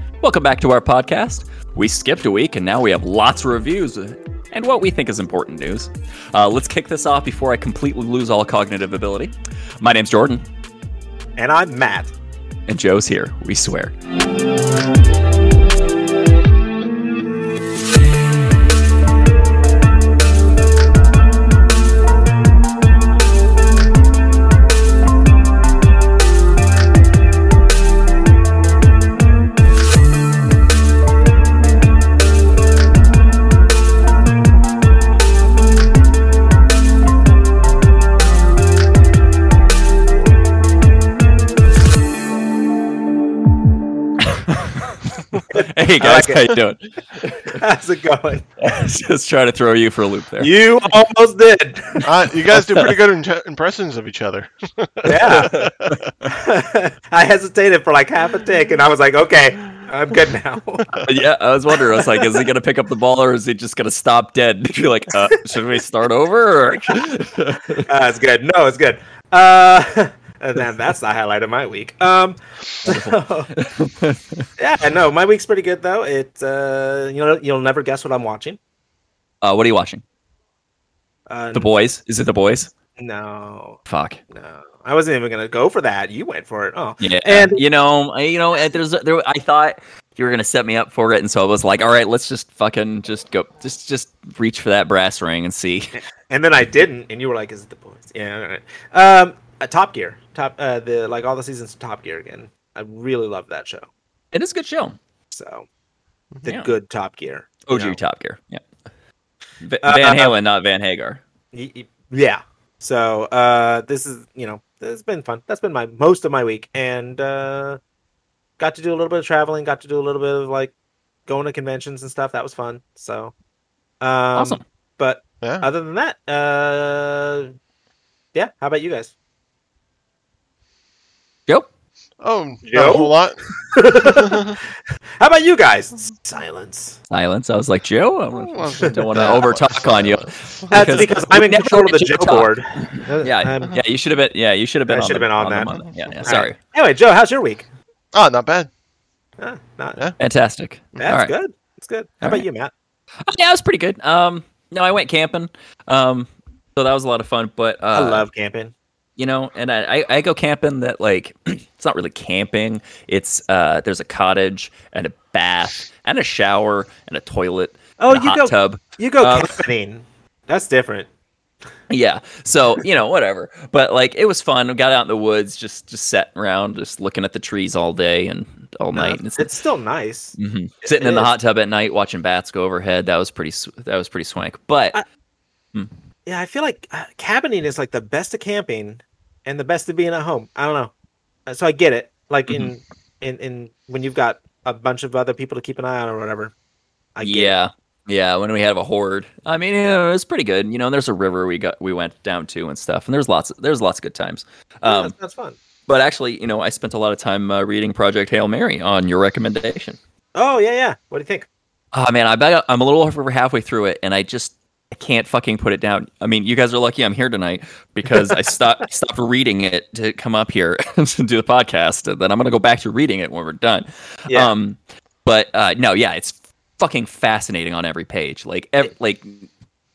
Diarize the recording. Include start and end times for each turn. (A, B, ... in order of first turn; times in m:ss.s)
0:00.2-0:10.5 A
0:11.4-0:12.1 B
0:12.7-0:13.9 A
0:44.2-0:47.6 A
0:46.0-0:46.6 B
0:47.4-0:48.5 B
0:48.6-0:50.5 A
0:50.4-0:53.0 B
0:52.0-0:56.1 C
0:55.0-0:55.6 B
0:55.1-0:56.4 A
0:56.3-1:01.0 B
1:01.0-1:07.9 A
1:01.9-1:02.5 B
1:07.8-1:13.5 B
1:12.8-1:14.5 A
1:14.6-1:18.6 B
1:19.4-1:20.0 A
1:21.3-1:21.7 B
1:21.5-1:22.7 A
1:23.0-1:23.8 B
1:23.9-1:24.2 A
1:24.3-1:27.6 B
1:27.0-1:36.0 A
1:36.2-1:43.9 B
1:44.3-1:45.0 A
1:45.3-1:45.7 B
1:46.4-1:48.0 B
1:46.5-1:46.7 A
1:47.7-1:48.6 A
1:49.6-1:51.2 A
1:49.8-1:50.4 B
1:51.5-1:57.8 B
1:58.6-2:00.7 B
2:01.3-2:03.3 B
2:04.0-2:07.5 B
2:04.4-2:04.6 A
2:05.4-2:05.7 C
2:08.3-2:09.1 B
2:12.2-2:14.6 C
2:12.6-2:14.6 B
2:15.2-2:17.0 B
2:17.1-2:26.6 A
2:18.4-2:21.0 C
2:18.9-2:19.4 B
2:20.7-2:23.8 B
2:24.9-2:27.7 B
2:28.1-2:28.7 C
2:29.4-2:30.0 B
2:30.2-2:31.3 A
2:31.0-2:32.7 B
2:33.2-2:38.3 A
2:37.9-2:38.7 B
2:39.2-2:49.6 A
2:48.0-2:51.1 B
2:51.9-2:59.5 A
2:58.9-3:01.3 B
3:00.4-3:05.0 A
3:06.3-3:10.9 B
3:11.5-3:16.5 B
3:17.2-3:17.6 B
3:17.2-3:25.1 A
3:24.8-3:25.6 B
3:25.9-3:30.0 A
3:30.4-3:31.5 B
3:31.9-3:49.5 A
3:38.1-3:38.5 B